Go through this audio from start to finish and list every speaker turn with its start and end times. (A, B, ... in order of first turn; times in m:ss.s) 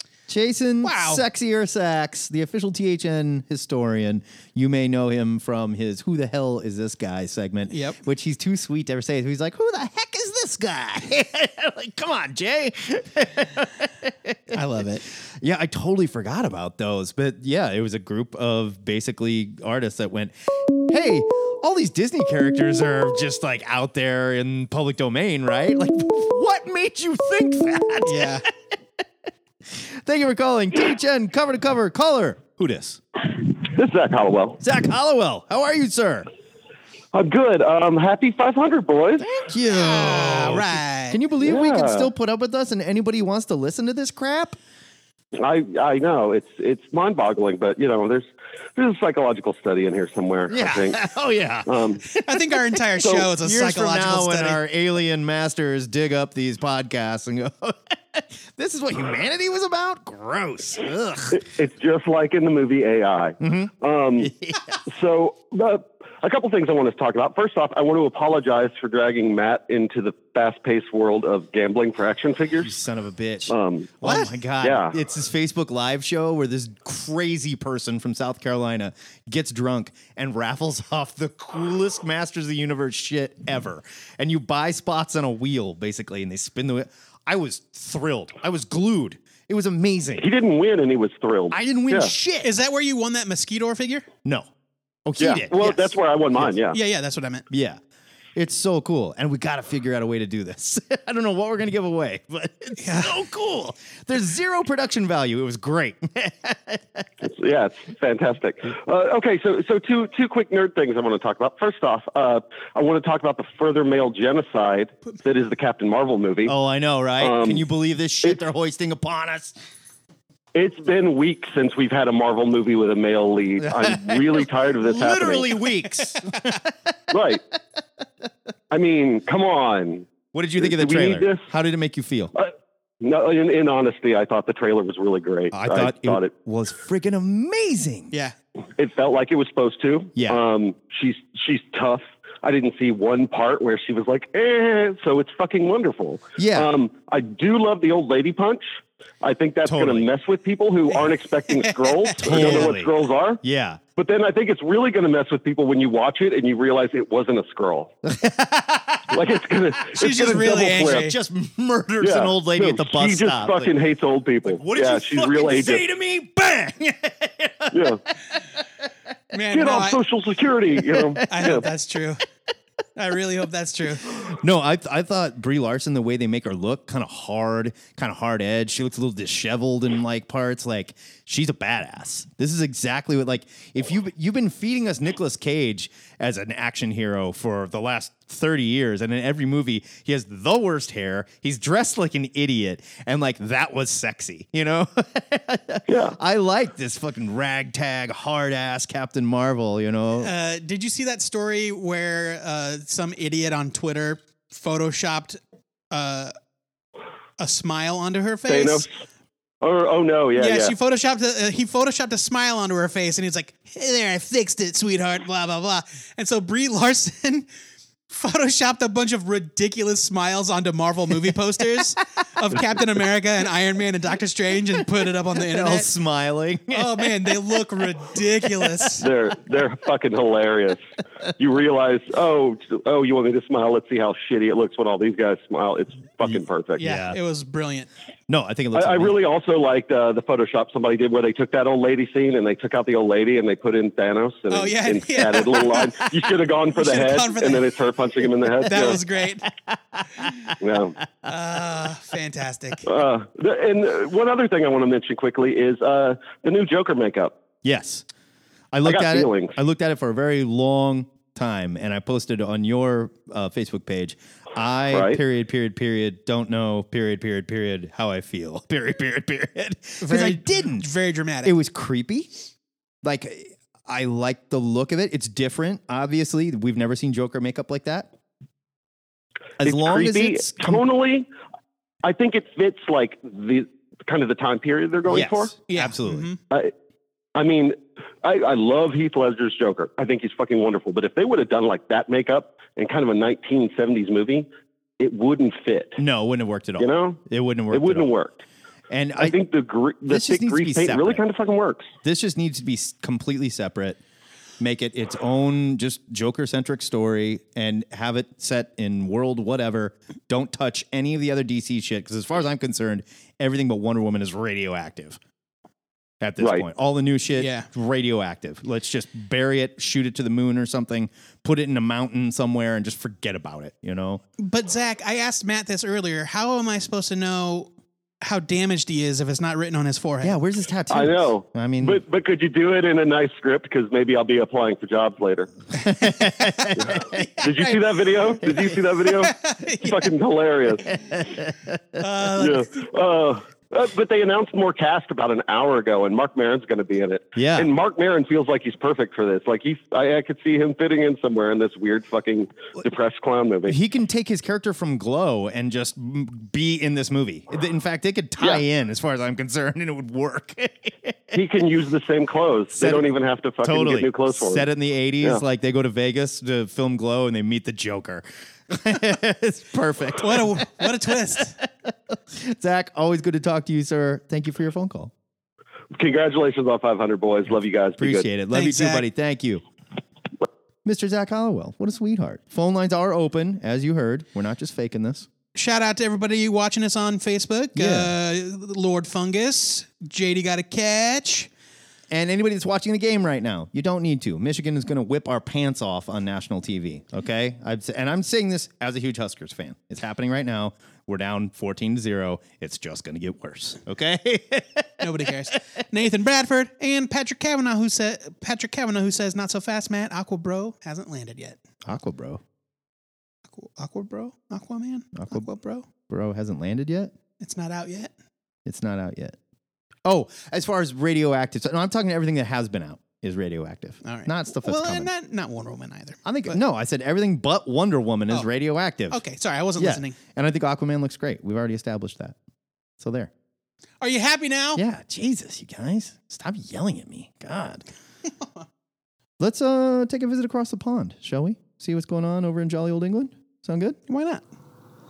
0:00.3-0:14.6 A
0:00.8-0:01.2 B
0:07.7-0:08.0 B
0:14.5-0:15.0 B
0:15.3-0:28.4 A
0:28.0-0:28.4 B
0:29.7-0:33.0 A
0:33.7-0:34.6 C
0:34.6-0:36.3 A
0:37.1-0:39.2 C
0:39.2-0:44.6 A
0:39.7-0:41.2 B
0:41.4-0:42.1 C
0:45.4-0:51.0 C
0:50.5-0:51.7 A
0:51.6-0:52.0 C
0:52.2-0:54.6 B
0:52.2-1:01.4 A
1:01.3-1:04.3 C
1:03.4-1:04.8 A
1:04.9-1:12.7 C
1:12.6-1:30.3 A
1:13.5-1:15.0 C
1:30.2-1:32.1 C
1:31.5-1:32.5 A
1:32.4-1:34.1 B
1:35.1-1:36.5 A
1:35.2-1:36.8 C
1:36.7-1:37.5 B
1:37.5-1:37.8 A
1:38.4-1:47.0 A
1:42.8-1:43.2 B
1:47.2-1:56.5 C
1:56.5-1:59.6 A
1:57.2-1:57.6 C
2:00.5-2:05.6 C
2:03.6-2:06.7 A
2:07.1-2:07.4 C
2:08.7-2:11.5 C
2:10.3-2:12.3 A
2:12.4-2:16.3 C
2:15.5-2:18.1 A
2:18.8-2:28.6 C
2:20.2-2:20.4 A
2:26.4-2:26.7 A
2:29.2-2:33.4 C
2:29.6-2:30.1 A
2:30.9-2:32.7 B
2:32.2-2:33.8 A
2:34.0-2:37.9 C
2:38.0-2:39.2 A
2:39.1-2:41.1 C
2:40.0-2:41.1 B
2:40.8-2:43.8 A
2:42.0-2:45.8 C
2:44.4-2:47.9 A
2:47.7-2:48.0 C
2:49.3-2:50.0 B
2:49.5-2:51.6 C
2:50.9-2:51.5 A
2:51.2-2:52.2 B
2:53.0-2:54.1 B
2:54.2-3:20.3 A
3:15.9-3:16.2 C
3:20.2-3:25.4 B
3:25.9-3:26.3 B
3:27.4-3:28.9 B
3:28.5-3:28.9 C
3:29.6-3:30.8 C
3:30.4-3:37.5 B
3:38.1-3:45.9 B
3:45.4-3:47.6 A
3:46.7-3:49.1 B
3:48.5-3:48.9 A
3:49.0-3:50.8 C
3:51.4-3:56.8 C
3:56.2-3:57.2 A
3:56.8-3:57.9 B
3:58.3-3:59.2 A
3:58.7-4:09.0 C
4:04.5-4:06.1 B
4:06.7-4:07.8 B
4:08.6-4:09.5 B
4:10.6-4:11.0 C
4:11.3-4:12.9 B
4:12.9-4:17.4 C
4:17.6-4:18.1 A
4:18.7-4:30.9 A
4:18.8-4:19.5 C
4:24.9-4:25.2 C
4:30.0-4:31.6 B
4:31.4-4:32.5 A
4:33.0-4:38.1 A
4:39.6-4:40.8 A
4:39.6-4:41.3 C
4:42.0-4:45.5 C
4:45.1-4:46.3 A
4:45.7-4:46.4 B
4:47.4-4:54.5 C
4:55.0-4:56.0 C
4:56.0-4:58.1 A
4:56.8-4:58.4 C
4:58.9-4:59.4 A
4:59.2-5:01.9 C
5:00.1-5:01.2 A
5:02.0-5:04.0 A
5:04.6-5:15.2 A
5:16.2-5:24.2 A
5:17.4-5:17.7 B
5:24.4-5:30.4 B
5:30.2-5:32.0 A
5:30.9-5:35.5 C
5:35.8-5:37.2 A
5:36.9-5:39.3 C
5:39.1-5:40.1 B
5:39.8-5:40.8 C
5:41.1-5:41.8 A
5:42.0-5:42.9 B
5:42.4-5:53.8 C
5:47.4-5:47.7 A
5:53.7-6:01.4 A
6:01.3-6:04.7 C
6:02.8-6:03.1 A
6:03.6-6:11.4 A
6:10.2-6:11.6 B
6:12.3-6:15.1 A
6:16.0-6:18.3 C
6:18.0-6:19.6 A
6:18.4-6:19.1 B
6:20.8-6:25.3 A
6:25.6-6:31.5 B
6:27.8-6:28.2 A
6:32.1-6:45.3 A
6:45.0-6:51.6 B
6:51.9-6:52.4 A
6:53.5-6:55.9 B
6:55.2-6:55.5 A
6:56.0-6:57.1 A
6:57.4-6:58.1 B
6:58.7-6:59.4 A
7:00.0-7:05.1 A
7:04.0-7:06.6 B
7:06.2-7:09.2 A
7:09.1-7:10.2 B
7:09.8-7:12.4 A
7:13.0-7:13.3 A
7:14.0-7:14.8 B
7:14.8-7:17.9 A
7:19.4-7:24.0 A
7:24.1-7:24.4 B